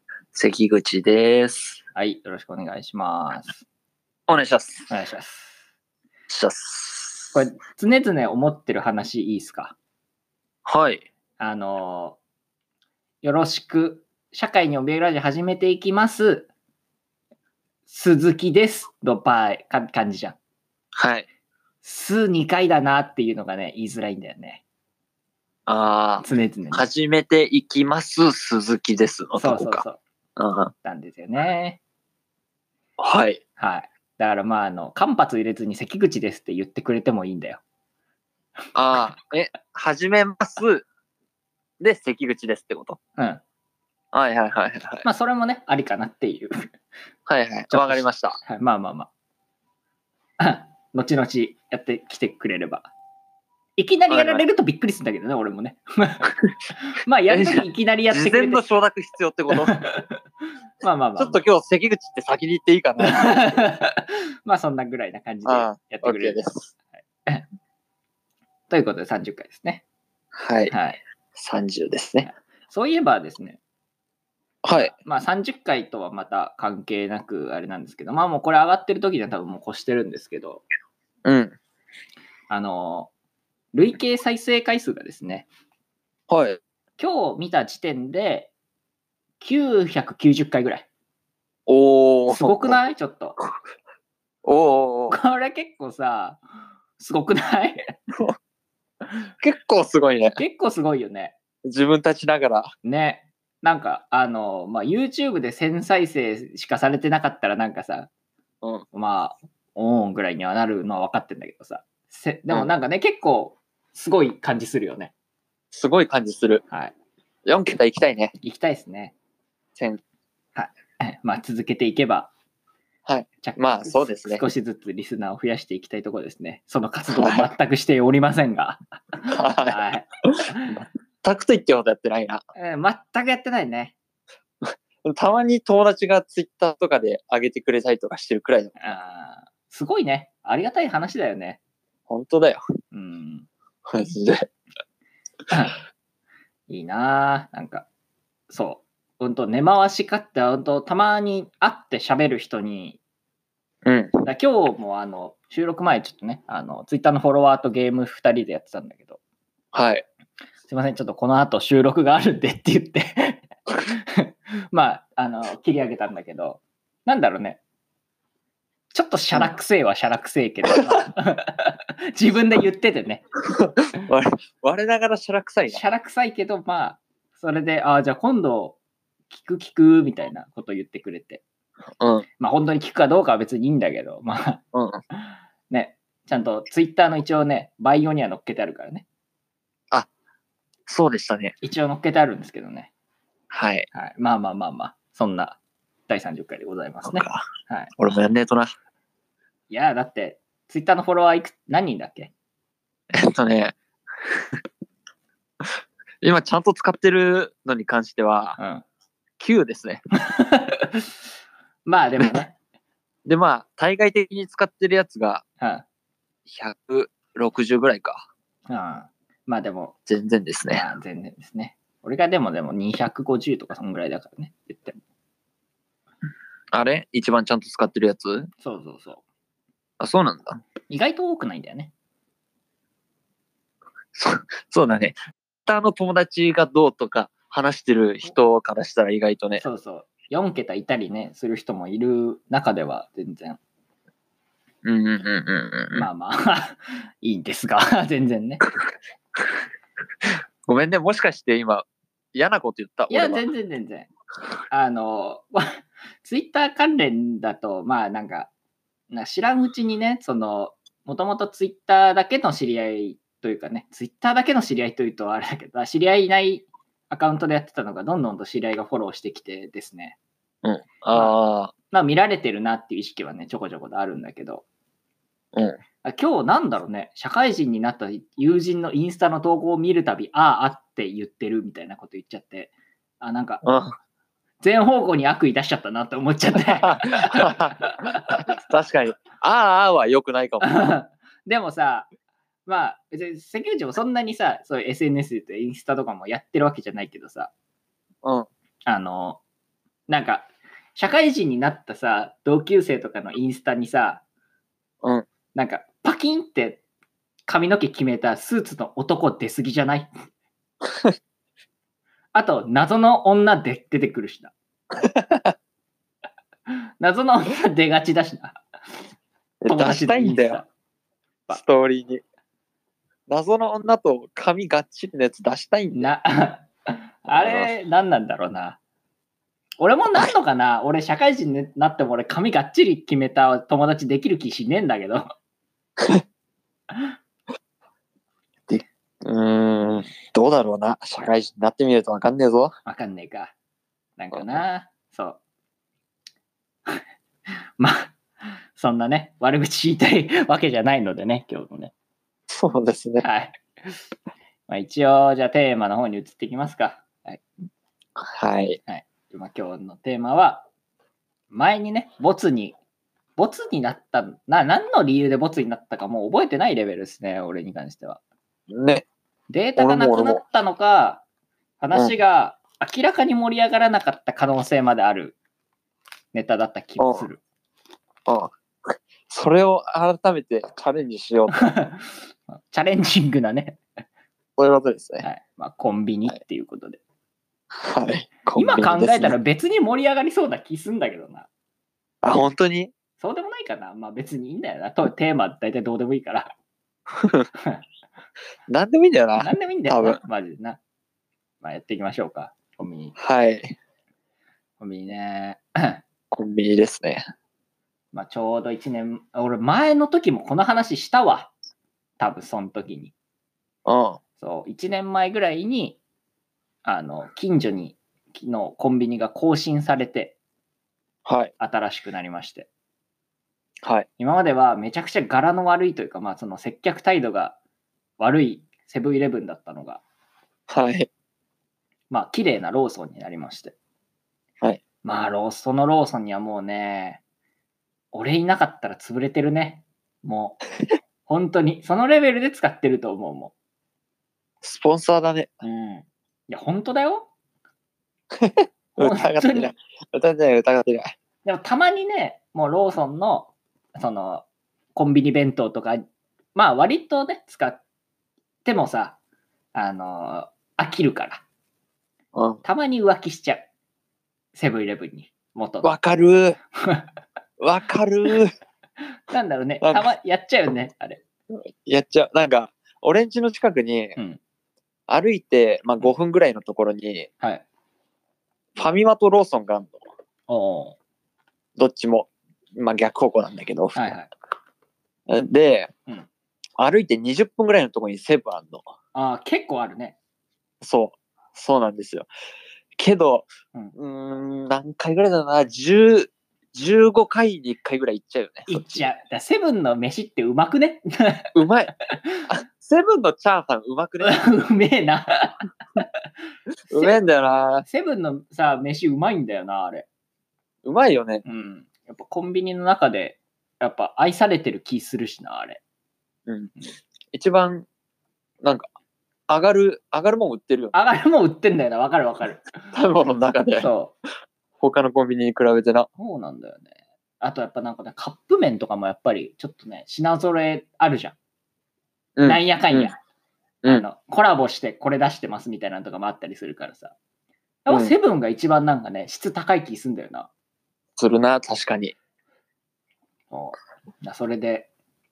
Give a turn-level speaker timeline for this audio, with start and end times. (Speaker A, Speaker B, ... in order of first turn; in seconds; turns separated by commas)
Speaker A: 0.3-1.8, Speaker B: 1.9-3.6, Speaker A: 4.3-4.9, Speaker B: 4.9-5.5, Speaker A: 6.3-7.4, Speaker B: 7.3-9.7, Speaker A: 10.7-11.0, Speaker B: 11.4-12.2, Speaker B: 13.2-16.5, Speaker B: 17.9-20.4, Speaker A: 20.9-21.3, Speaker B: 21.8-24.6, Speaker A: 25.7-29.8, Speaker B: 26.2-26.8, Speaker B: 29.4-30.0, Speaker A: 30.4-30.7, Speaker B: 30.8-31.8, Speaker A: 33.0-33.4, Speaker B: 33.6-37.6, Speaker A: 38.7-40.8, Speaker A: 41.8-43.0, Speaker A: 44.1-45.0, Speaker B: 45.0-46.6, Speaker A: 47.3-48.4, Speaker B: 47.7-49.1, Speaker B: 50.4-52.9, Speaker B: 53.8-56.3, Speaker A: 54.1-54.4, Speaker B: 57.0-58.6, Speaker A: 57.3-59.8, Speaker B: 59.5-60.2, Speaker B: 60.8-61.4, Speaker A: 61.2-63.6, Speaker B: 63.0-66.4, Speaker A: 65.4-66.7, Speaker B: 68.7-69.8, Speaker A: 70.4-70.7, Speaker B: 70.7-71.0, Speaker A: 71.3-72.3, Speaker B: 72.2-73.6, Speaker A: 74.6-74.9, Speaker B: 74.8-80.6, Speaker A: 81.2-81.5, Speaker B: 82.5-83.1, Speaker B: 83.7-85.5, Speaker A: 86.3-86.6, Speaker B: 87.0-88.5, Speaker B: 89.4-90.8, Speaker A: 91.7-92.8, Speaker B: 92.3-93.4, Speaker A: 94.4-95.2, Speaker B: 95.1-96.4, Speaker B: 97.0-97.8, Speaker A: 99.4-100.4, Speaker B: 100.4-101.3, Speaker A: 101.6-102.7, Speaker B: 102.8-108.1, Speaker B: 108.9-115.1, Speaker A: 115.7-116.6, Speaker A: 117.5-118.3, Speaker B: 118.4-119.1, Speaker A: 119.8-120.0, Speaker B: 120.5-122.3, Speaker A: 123.0-124.4, Speaker B: 123.4-130.8, Speaker A: 127.1-127.5, Speaker A: 129.3-129.8, Speaker A: 131.2-132.4, Speaker B: 132.6-133.9, Speaker A: 134.6-138.8, Speaker B: 138.8-141.6, Speaker A: 142.1-142.6, Speaker B: 142.9-143.5, Speaker A: 143.9-144.5, Speaker B: 145.5-145.8, Speaker B: 146.7-147.8, Speaker B: 148.5-153.0, Speaker A: 153.8-154.1, Speaker B: 154.2-159.2, Speaker A: 159.7-160.0, Speaker B: 160.7-167.6, Speaker B: 168.9-173.2, Speaker A: 173.5-175.8, Speaker B: 175.7-178.8, Speaker B: 179.3-181.4, Speaker A: 182.0-182.2, Speaker B: 182.4-184.6, Speaker A: 184.7-185.0, Speaker B: 185.7-189.0, Speaker A: 190.9-191.5, Speaker B: 191.6-192.9, Speaker A: 193.5-193.9, Speaker B: 193.9-197.9, Speaker A: 197.0-197.4, Speaker A: 198.0-198.7, Speaker B: 199.7-202.3, Speaker A: 203.1-204.5, Speaker A: 206.2-208.6, Speaker B: 208.6-208.8, Speaker A: 209.4-210.0, Speaker B: 210.2-211.1, Speaker B: 211.8-212.5, Speaker A: 213.2-215.4, Speaker A: 216.5-218.3, Speaker B: 218.7-219.9, Speaker A: 220.1-220.8, Speaker B: 220.7-225.0, Speaker A: 226.7-228.5, Speaker B: 228.6-229.2, Speaker A: 230.0-230.6, Speaker B: 230.9-231.9, Speaker A: 234.1-239.6, Speaker B: 239.6-243.6, Speaker A: 244.8-246.1, Speaker B: 245.9-248.6, Speaker A: 250.7-253.4, Speaker B: 253.1-254.1, Speaker B: 254.7-255.7, Speaker B: 256.2-258.5, Speaker B: 259.1-270.1, Speaker A: 270.6-271.7, Speaker B: 271.9-274.6, Speaker B: 276.0-283.6, Speaker A: 283.6-283.9, Speaker B: 284.6-288.5, Speaker A: 286.6-290.9, Speaker B: 290.6-292.1, Speaker B: 292.6-297.5, Speaker B: 298.9-299.4, Speaker B: 300.1-304.2, Speaker B: 305.5-306.8, Speaker B: 307.5-310.1, Speaker A: 310.9-311.1, Speaker B: 312.3-314.5, Speaker A: 314.9-315.5, Speaker B: 317.0-318.6, Speaker A: 319.6-320.6, Speaker B: 319.7-320.7, Speaker A: 321.5-322.2, Speaker A: 323.3-326.1, Speaker B: 326.0-328.8, Speaker A: 327.3-327.7, Speaker B: 329.8-335.2, Speaker A: 338.7-342.7, Speaker B: 342.9-343.5, Speaker B: 344.2-345.4, Speaker A: 344.3-344.6, Speaker B: 347.8-348.1, Speaker B: 348.7-351.9, Speaker A: 352.5-353.2, Speaker B: 353.2-353.6, Speaker B: 354.7-357.4, Speaker A: 358.2-358.8, Speaker B: 358.9-360.6, Speaker B: 361.5-362.8, Speaker B: 363.4-368.2, Speaker A: 368.7-369.0, Speaker B: 369.5-371.2, Speaker A: 369.8-370.4, Speaker B: 371.8-375.4, Speaker B: 376.3-377.4, Speaker A: 377.0-377.2, Speaker A: 378.3-381.7, Speaker B: 381.5-383.8, Speaker A: 384.6-385.2, Speaker B: 385.2-387.0, Speaker A: 387.7-389.3, Speaker B: 388.6-391.5, Speaker A: 392.2-392.9, Speaker B: 393.2-396.5, Speaker A: 397.2-397.4, Speaker A: 398.7-400.2, Speaker B: 399.4-400.8, Speaker B: 401.6-403.1, Speaker A: 403.2-403.7, Speaker B: 404.8-406.0, Speaker A: 406.3-407.2, Speaker B: 408.1-411.5, Speaker B: 412.2-413.1, Speaker A: 413.9-414.2, Speaker B: 414.4-416.0, Speaker B: 416.8-420.4, Speaker A: 421.2-421.5, Speaker B: 421.6-422.7, Speaker B: 424.2-427.6, Speaker B: 428.2-430.0, Speaker A: 430.7-431.1, Speaker B: 432.1-433.7, Speaker B: 435.0-437.2, Speaker B: 438.1-440.6, Speaker B: 441.3-443.5, Speaker A: 444.6-445.6, Speaker B: 445.6-447.3, Speaker A: 448.3-451.1, Speaker B: 449.0-449.7, Speaker B: 451.4-456.0, Speaker B: 456.5-457.8, Speaker B: 458.6-459.1, Speaker B: 459.7-461.4, Speaker A: 462.3-462.6, Speaker B: 462.6-463.6, Speaker B: 464.5-465.9, Speaker A: 465.8-466.6, Speaker B: 466.8-467.0, Speaker A: 467.6-468.5, Speaker B: 469.3-471.2, Speaker A: 469.8-470.1, Speaker A: 471.5-474.1, Speaker A: 475.1-477.3, Speaker A: 478.8-480.0, Speaker B: 480.5-481.0, Speaker A: 481.8-484.0, Speaker B: 483.9-484.3, Speaker A: 485.3-485.9, Speaker A: 486.8-488.8, Speaker B: 489.1-490.2, Speaker A: 490.8-492.3, Speaker A: 493.0-498.9, Speaker B: 498.7-501.5, Speaker A: 501.5-501.9, Speaker A: 502.5-504.4, Speaker B: 504.2-506.0, Speaker A: 506.9-507.8, Speaker B: 506.9-507.2, Speaker B: 507.9-510.1, Speaker A: 510.8-511.4, Speaker B: 511.4-515.8, Speaker A: 516.5-516.7, Speaker A: 517.3-517.9, Speaker A: 518.6-518.9, Speaker A: 519.5-520.9, Speaker B: 520.9-522.9, Speaker A: 522.9-523.9, Speaker B: 523.8-524.1, Speaker A: 524.8-526.1, Speaker B: 526.2-531.4, Speaker A: 532.4-533.1, Speaker B: 532.4-533.1, Speaker B: 533.9-537.1, Speaker B: 537.8-540.5, Speaker A: 537.9-538.1, Speaker A: 541.2-542.1, Speaker B: 543.5-544.9